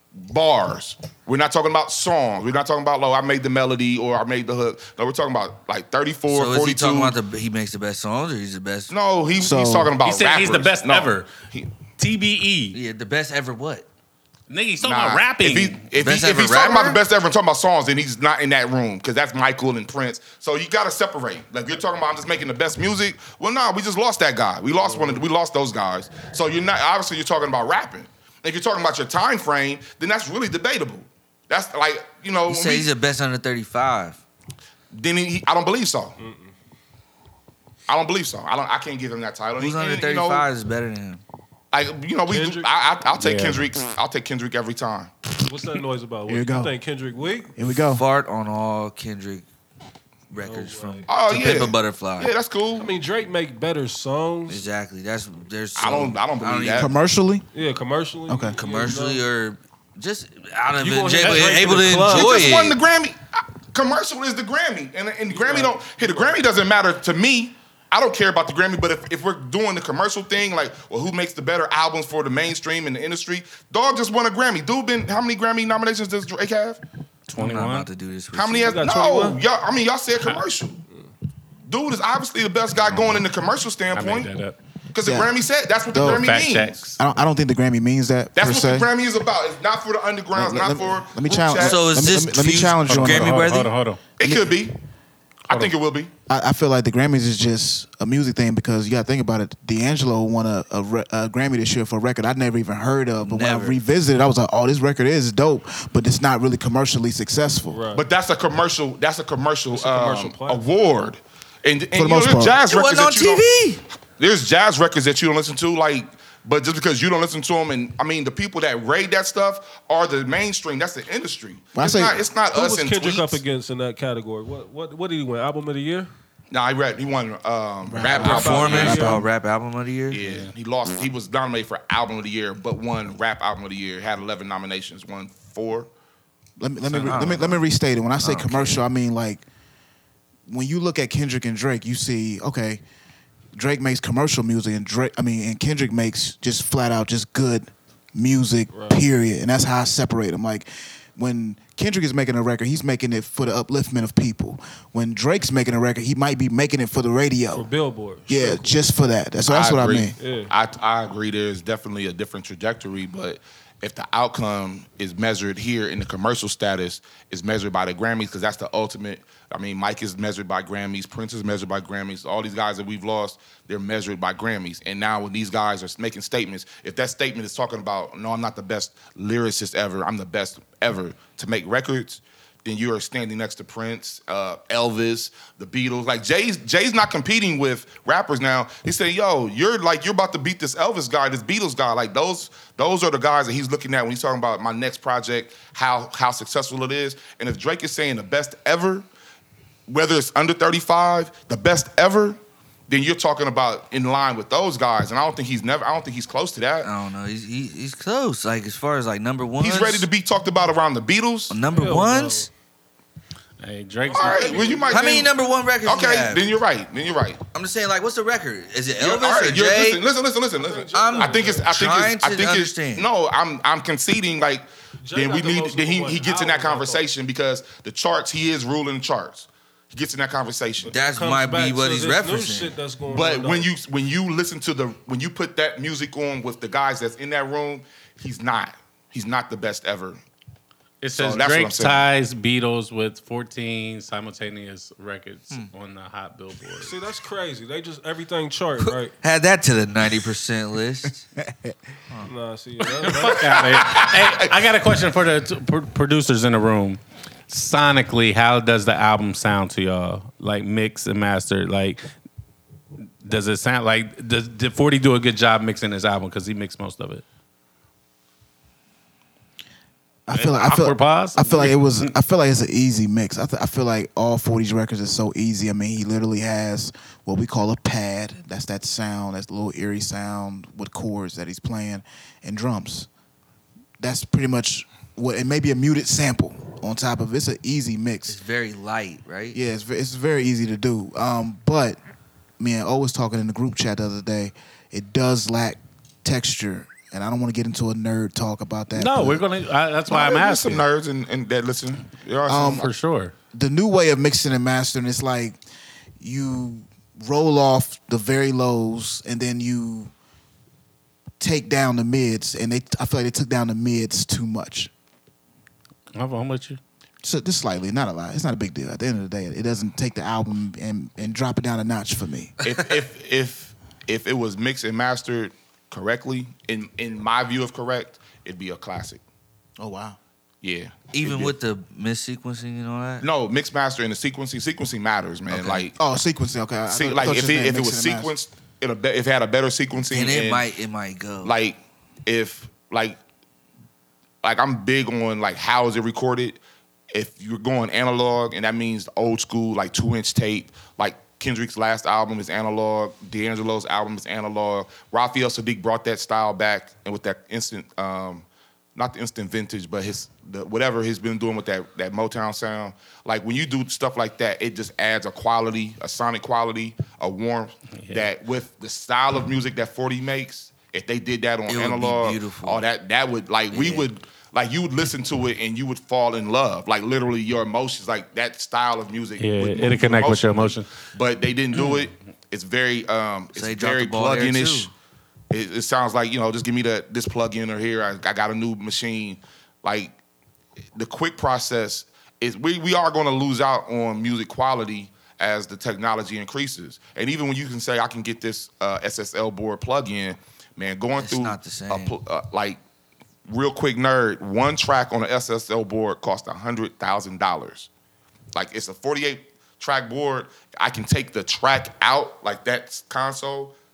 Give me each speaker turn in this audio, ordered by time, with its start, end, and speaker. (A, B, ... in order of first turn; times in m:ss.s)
0:00.2-0:07.2 A
0:06.3-0:08.9 B
0:08.9-0:11.7 A
0:09.4-0:09.9 C
0:10.0-0:11.3 D
0:12.0-0:12.8 D
0:12.7-0:13.9 B
0:14.5-0:15.8 D
0:14.8-0:32.9 A
0:16.0-0:17.0 B
0:24.8-0:25.3 E
0:32.5-0:34.2 B
0:34.9-0:36.2 A
0:36.2-0:36.5 E
0:37.9-0:40.5 A
0:39.6-0:41.2 B
0:41.7-0:45.3 A
0:42.3-0:42.7 E
0:43.2-0:43.7 D
0:45.4-0:47.5 E
0:46.3-0:46.8 C
0:47.6-0:48.0 C
0:47.9-0:49.5 B
0:50.3-0:52.3 B
0:50.4-0:51.1 E
0:51.1-0:52.9 A
0:52.8-0:54.6 E
0:54.5-0:56.9 B
0:55.8-0:56.9 A
0:56.8-0:57.5 C
0:57.5-0:59.2 E
0:58.3-0:58.6 C
0:58.5-1:02.8 B
1:00.8-1:02.6 E
1:01.2-1:01.5 D
1:02.1-1:16.8 A
1:05.3-1:06.4 E
1:17.3-1:17.9 D
1:17.4-1:18.8 B
1:18.3-1:20.8 A
1:18.7-1:19.4 E
1:21.7-1:24.3 A
1:22.8-1:23.2 D
1:23.9-1:24.6 D
1:24.9-1:26.8 A
1:25.0-1:25.3 C
1:25.9-1:26.3 C
1:26.0-1:27.0 D
1:27.0-1:28.9 C
1:28.4-1:31.8 A
1:30.3-1:33.5 C
1:31.6-1:33.7 B
1:32.9-1:34.0 D
1:34.2-1:34.8 A
1:34.2-1:34.6 C
1:35.5-1:36.1 A
1:36.3-1:47.8 C
1:43.2-1:43.8 B
1:47.7-1:48.0 E
1:47.9-1:53.4 A
1:49.7-1:50.8 E
1:52.0-1:52.6 C
1:52.7-1:53.8 B
1:54.2-2:03.4 A
2:01.8-2:02.2 C
2:02.5-2:06.1 E
2:06.5-2:09.1 A
2:07.9-2:09.2 C
2:08.0-2:09.2 E
2:08.2-2:10.2 B
2:10.1-2:15.9 A
2:10.2-2:10.5 D
2:16.6-2:19.4 C
2:16.9-2:17.7 B
2:18.2-2:18.8 B
2:20.5-2:22.8 C
2:23.5-2:37.7 C
2:28.7-2:29.0 E
2:37.5-2:38.8 E
2:38.3-2:40.2 C
2:39.5-3:19.1 A
2:40.2-2:40.5 E
3:19.9-3:26.9 A
3:26.8-3:30.1 B
3:29.6-3:31.6 A
3:31.5-3:32.5 B
3:31.7-3:32.5 E
3:33.6-3:34.9 D
3:34.1-3:35.3 E
3:34.1-3:35.3 A
3:34.9-3:36.5 B
3:35.8-3:37.4 A
3:37.5-3:40.0 B
3:39.0-3:50.9 A
3:40.6-3:41.7 E
3:40.9-3:43.1 B
3:45.0-3:47.1 E
3:50.8-3:53.7 E
3:50.9-3:52.8 B
3:53.1-4:00.2 A
4:01.0-4:07.0 D
4:01.2-4:02.1 A
4:06.8-4:09.2 E
4:08.8-4:11.2 B
4:12.2-4:13.6 E
4:13.0-4:22.1 D
4:13.4-4:14.5 A
4:23.2-4:27.2 D
4:30.3-4:43.1 C
4:30.3-4:32.1 D
4:44.0-4:48.4 C
4:48.3-4:49.6 B
4:49.5-4:52.0 C
4:52.6-4:59.4 C
4:58.9-5:00.9 D
5:00.1-5:02.9 A
5:02.5-5:02.9 C
5:02.7-5:03.3 D
5:03.5-5:05.6 C
5:06.2-5:10.1 C
5:11.4-5:14.9 C
5:16.1-5:16.8 D
5:17.2-5:22.6 C
5:22.6-5:29.2 A
5:29.8-5:30.2 C
5:30.6-5:31.6 A
5:31.1-5:33.3 B
5:33.2-5:36.0 A
5:35.5-5:35.9 B
5:36.0-5:38.3 C
5:36.9-5:40.7 A
5:40.1-5:41.6 B
5:41.4-5:43.2 A
5:44.4-5:46.6 A
5:47.1-6:24.9 A
6:08.0-6:08.3 D
6:11.7-6:12.8 B
6:13.7-6:14.1 B
6:19.4-6:20.9 D
6:23.5-6:24.9 B
6:25.5-6:30.2 A
6:31.0-6:42.8 A
6:41.2-6:42.2 B
6:43.5-6:47.9 A
6:48.5-6:53.8 A